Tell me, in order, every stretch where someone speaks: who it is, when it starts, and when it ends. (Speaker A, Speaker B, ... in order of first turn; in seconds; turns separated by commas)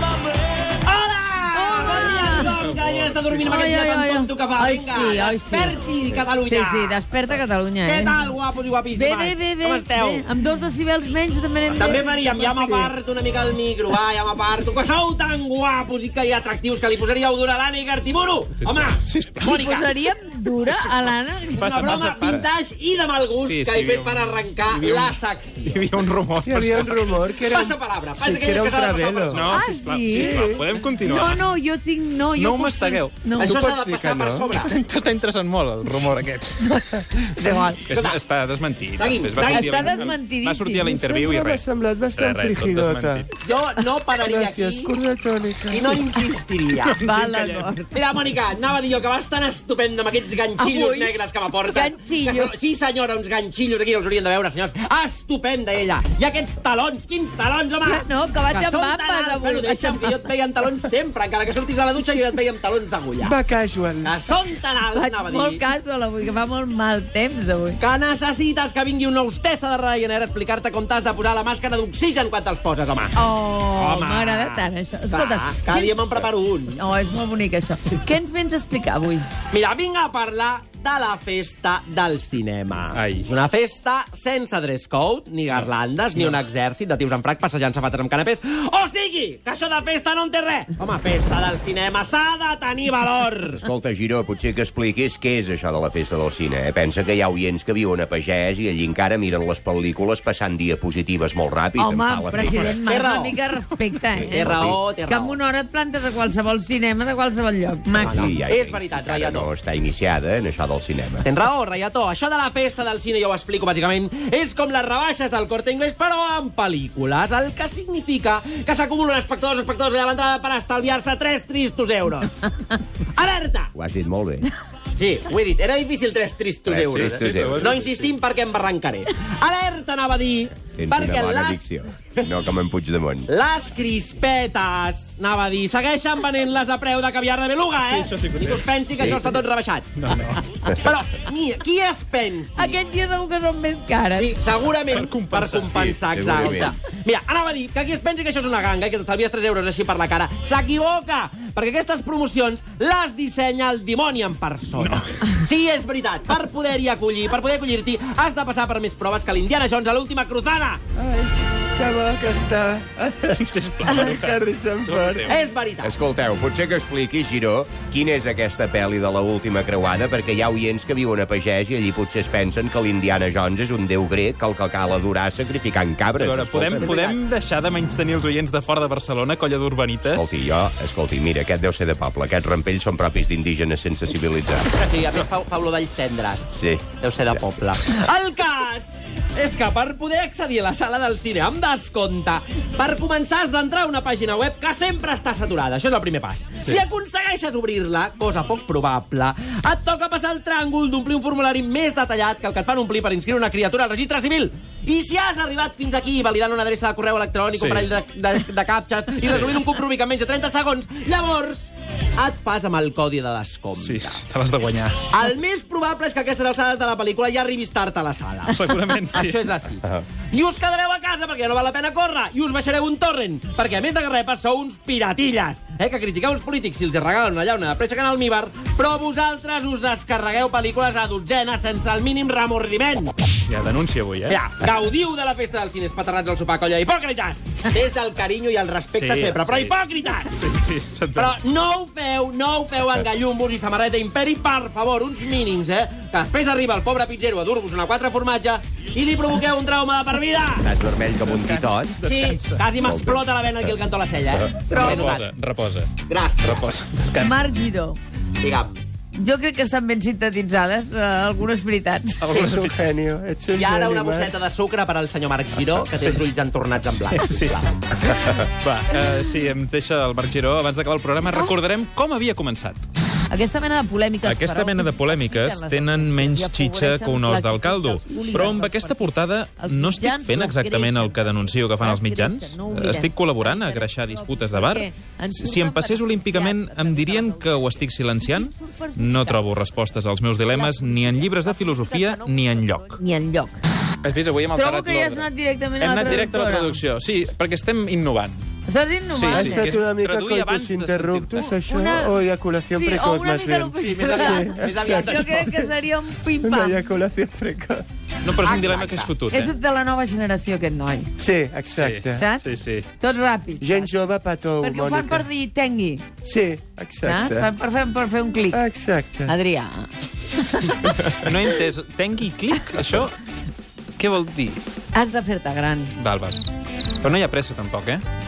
Speaker A: 0.8-7.0, Speaker B: 1.5-2.6, Speaker C: 2.6-3.6, Speaker B: 3.4-5.8, Speaker B: 6.4-8.4, Speaker A: 7.8-10.3, Speaker B: 8.9-12.9, Speaker A: 11.7-19.9, Speaker C: 18.6-19.6, Speaker B: 19.4-21.7, Speaker C: 20.8-22.5, Speaker A: 21.6-25.9, Speaker C: 23.4-27.1, Speaker D: 26.4-29.6, Speaker A: 27.1-29.4, Speaker C: 29.3-31.4, Speaker B: 29.4-30.4, Speaker D: 30.1-30.7, Speaker B: 31.0-33.5, Speaker C: 32.4-33.3, Speaker A: 33.4-34.7, Speaker D: 33.4-34.6, Speaker C: 34.5-36.6, Speaker B: 36.6-37.9, Speaker A: 37.9-38.2, Speaker C: 37.9-43.3, Speaker A: 39.0-40.0, Speaker B: 39.4-40.9, Speaker D: 40.9-43.3, Speaker A: 43.4-45.0, Speaker D: 44.2-46.3, Speaker A: 45.7-47.0, Speaker C: 46.8-47.7, Speaker B: 47.0-48.0, Speaker A: 47.9-63.4, Speaker B: 50.6-51.1, Speaker B: 51.6-52.5, Speaker B: 57.8-60.2, Speaker D: 63.2-64.2, Speaker A: 64.0-65.6, Speaker B: 64.9-67.8, Speaker A: 67.8-73.2, Speaker B: 73.1-76.0, Speaker A: 73.7-76.8, Speaker B: 76.7-79.3, Speaker A: 79.5-93.6, Speaker C: 82.9-83.3, Speaker C: 85.5-86.4, Speaker E: 93.6-102.8, Speaker B: 101.8-108.3, Speaker A: 102.8-103.4, Speaker E: 104.1-104.8, Speaker A: 104.3-105.4, Speaker A: 108.0-109.5, Speaker E: 108.0-111.3, Speaker A: 111.2-122.3, Speaker A: 123.2-123.7, Speaker E: 123.8-124.5, Speaker A: 125.0-131.7, Speaker E: 126.7-127.7, Speaker C: 126.9-128.2, Speaker E: 130.7-133.3, Speaker A: 133.3-139.9, Speaker C: 137.8-140.4, Speaker E: 139.0-139.3, Speaker A: 140.7-142.8, Speaker B: 142.6-144.3, Speaker A: 144.1-160.8, Speaker C: 144.9-146.7, Speaker E: 145.8-146.8, Speaker C: 154.7-155.5, Speaker D: 161.0-165.4, Speaker C: 163.3-165.4, Speaker A: 165.3-165.9, Speaker E: 165.8-177.1, Speaker C: 176.2-180.4, Speaker A: 176.8-177.2, Speaker E: 180.1-184.7, Speaker A: 184.7-214.2, Speaker E: 186.6-186.9, Speaker C: 207.5-207.9, Speaker C: 209.2-209.6, Speaker C: 213.7-215.0, Speaker A: 215.1-233.1, Speaker C: 218.5-219.5, Speaker C: 233.5-234.4, Speaker A: 234.3-240.3, Speaker C: 238.9-239.8, Speaker C: 240.3-241.4, Speaker A: 241.2-250.7, Speaker E: 250.6-252.0, Speaker C: 251.3-252.7, Speaker A: 252.0-255.3, Speaker E: 252.8-253.8, Speaker C: 254.7-257.5, Speaker B: 254.7-255.1, Speaker A: 256.1-256.6, Speaker B: 257.2-258.0, Speaker A: 258.4-258.8, Speaker B: 259.1-262.3, Speaker C: 262.2-262.9, Speaker D: 262.3-264.4, Speaker A: 263.5-267.8, Speaker C: 265.8-272.8, Speaker B: 273.3-289.5, Speaker C: 274.2-293.0, Speaker B: 290.5-293.6, Speaker C: 294.0-295.3, Speaker B: 294.6-296.8, Speaker C: 295.8-298.4, Speaker B: 298.7-299.7, Speaker C: 299.1-301.6, Speaker D: 299.3-305.7, Speaker B: 301.7-306.8, Speaker A: 303.8-305.4, Speaker D: 306.4-307.8, Speaker C: 308.2-309.5, Speaker B: 308.4-311.1, Speaker A: 308.8-309.1, Speaker D: 311.2-312.3, Speaker C: 311.7-312.9, Speaker B: 312.2-313.9, Speaker D: 313.6-315.3, Speaker B: 314.6-316.1, Speaker D: 316.2-317.5, Speaker B: 317.0-318.6, Speaker D: 318.5-319.3, Speaker B: 319.2-321.0, Speaker C: 321.2-323.1, Speaker C: 324.0-324.6, Speaker B: 324.9-325.9, Speaker C: 326.0-326.4, Speaker C: 327.0-328.0